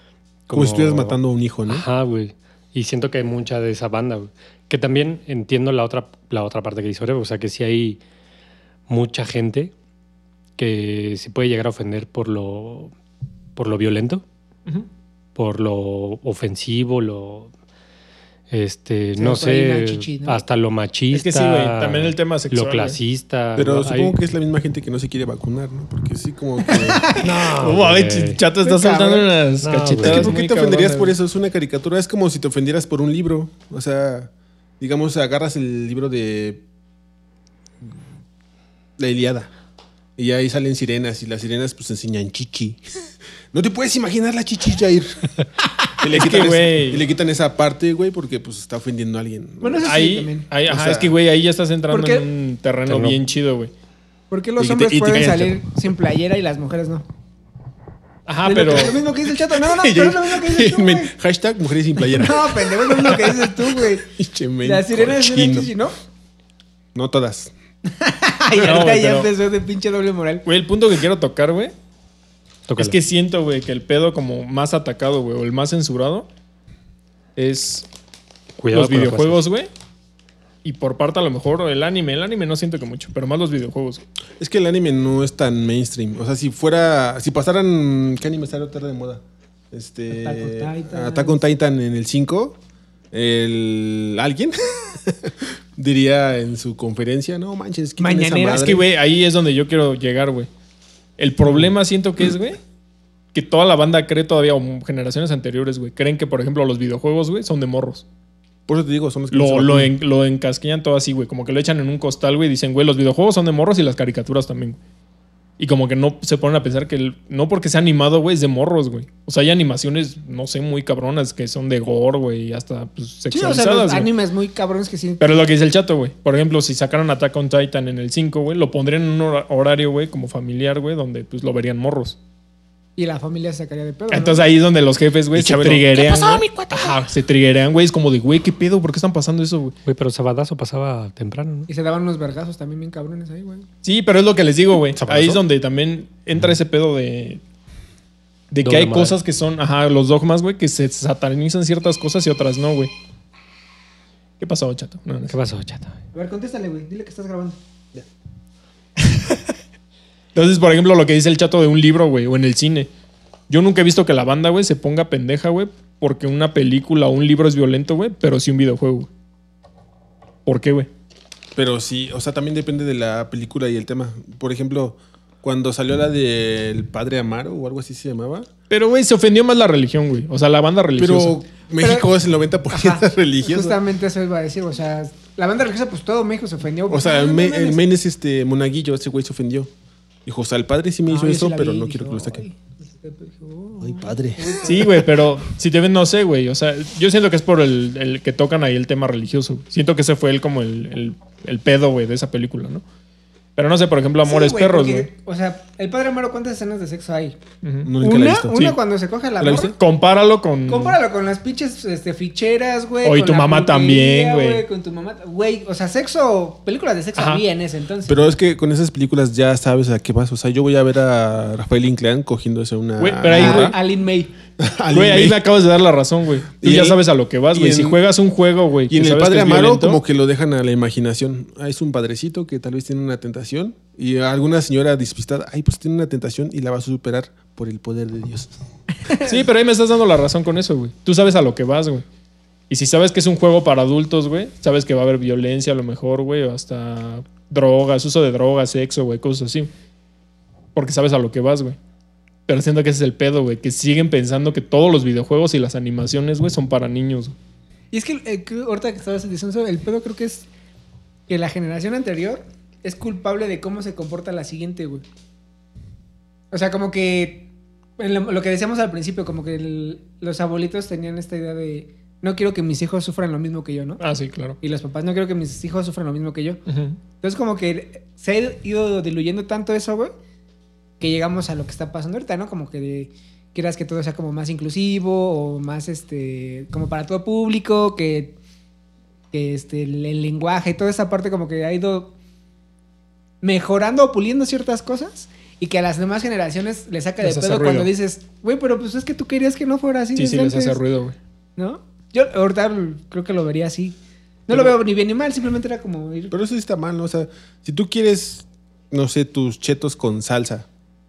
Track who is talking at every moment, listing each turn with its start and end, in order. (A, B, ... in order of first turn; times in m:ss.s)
0:00.5-0:08.0 A
0:00.5-0:01.8 B
0:08.9-0:09.7 A
0:10.6-0:12.9 A
0:13.6-0:14.2 A
0:15.4-0:17.5 A
0:18.5-0:24.2 A
0:19.2-0:20.4 C
0:21.1-0:23.0 D
0:23.6-0:27.2 B
0:26.7-0:27.3 C
0:27.2-0:28.4 A
0:27.5-0:31.1 D
0:28.6-0:29.2 B
0:29.6-0:30.3 A
0:30.0-0:36.6 B
0:39.0-0:39.5 B
0:40.2-0:45.3 B
0:46.0-0:49.9 B
0:46.1-0:47.0 D
0:49.6-0:50.5 C
0:49.8-0:53.7 D
0:50.7-0:51.2 B
0:51.9-0:52.3 C
0:52.9-0:53.2 A
0:54.3-0:57.0 C
0:54.6-0:55.7 B
0:58.3-0:59.0 D
0:58.4-1:01.1 C
0:58.7-1:05.7 B
1:02.1-1:04.1 C
1:04.6-1:06.0 C
1:06.9-1:07.5 B
1:07.9-1:10.4 C
1:08.6-1:09.3 D
1:10.4-1:11.7 D
1:12.7-1:13.0 A
1:12.8-1:16.3 D
1:17.4-1:17.9 D
1:18.6-1:19.4 A
1:18.7-1:19.7 D
1:20.6-1:24.0 D
1:24.4-1:32.6 B
1:30.1-1:31.4 C
1:33.1-1:38.8 B
1:38.0-1:38.8 C
1:38.5-1:40.5 D
1:41.2-1:42.6 D
1:43.3-1:48.0 D
1:48.7-1:49.9 B
1:49.3-1:54.8 D
1:55.6-2:04.1 D
2:03.3-2:05.4 C
2:05.2-2:12.2 D
2:13.0-2:14.5 C
2:14.1-2:19.8 D
2:15.3-2:16.7 B
2:16.0-2:17.0 C
2:19.8-2:21.7 A
2:21.7-2:23.6 C
2:23.8-2:27.4 D
2:24.9-2:25.4 B
2:28.5-2:32.9 D
2:28.6-2:29.2 A
2:34.4-2:35.4 D
2:35.3-2:36.0 A
2:36.1-2:37.6 C
2:39.0-2:39.5 D
2:40.4-2:42.9 D
2:43.5-2:49.1 D
2:50.4-2:50.9 D
2:51.6-2:58.5 B
2:58.7-3:01.4 D
3:01.0-3:03.8 B
3:01.8-3:02.1 C
3:02.7-3:07.8 C
3:06.9-3:09.7 B
3:10.3-3:12.4 B
3:11.1-3:15.0 C
3:13.8-3:15.1 B
3:14.6-3:22.8 D
3:23.6-3:25.1 D
3:24.2-3:27.4 C
3:27.6-3:27.9 D
3:27.8-3:28.7 B
3:28.0-3:29.7 C
3:29.4-3:29.7 B
3:29.6-3:31.0 D
3:30.7-3:38.3 C
3:33.0-3:34.6 D
3:37.2-3:37.4 D
3:38.1-3:43.8 B
3:43.0-3:43.8 D
3:43.3-3:44.3 C
3:44.6-3:45.4 B
3:44.9-3:50.0 D
3:46.6-3:48.0 B
3:48.9-3:58.5 B
3:59.2-4:02.0 D
4:02.7-4:09.7 D
4:10.7-4:11.8 D
4:12.5-4:17.4 D
4:17.9-4:20.4 C
4:21.3-4:25.0 C
4:26.5-4:34.0 C
4:34.0-4:34.6 D
4:34.6-4:36.6 C
4:36.7-4:37.0 D
4:37.2-4:40.1 C
4:41.0-4:48.4 C
4:49.3-4:52.1 C
4:53.4-5:00.8 C
4:57.2-4:57.9 D
5:00.1-5:01.2 D
5:01.6-5:06.3 C
5:04.5-5:04.7 D
5:06.3-5:10.7 B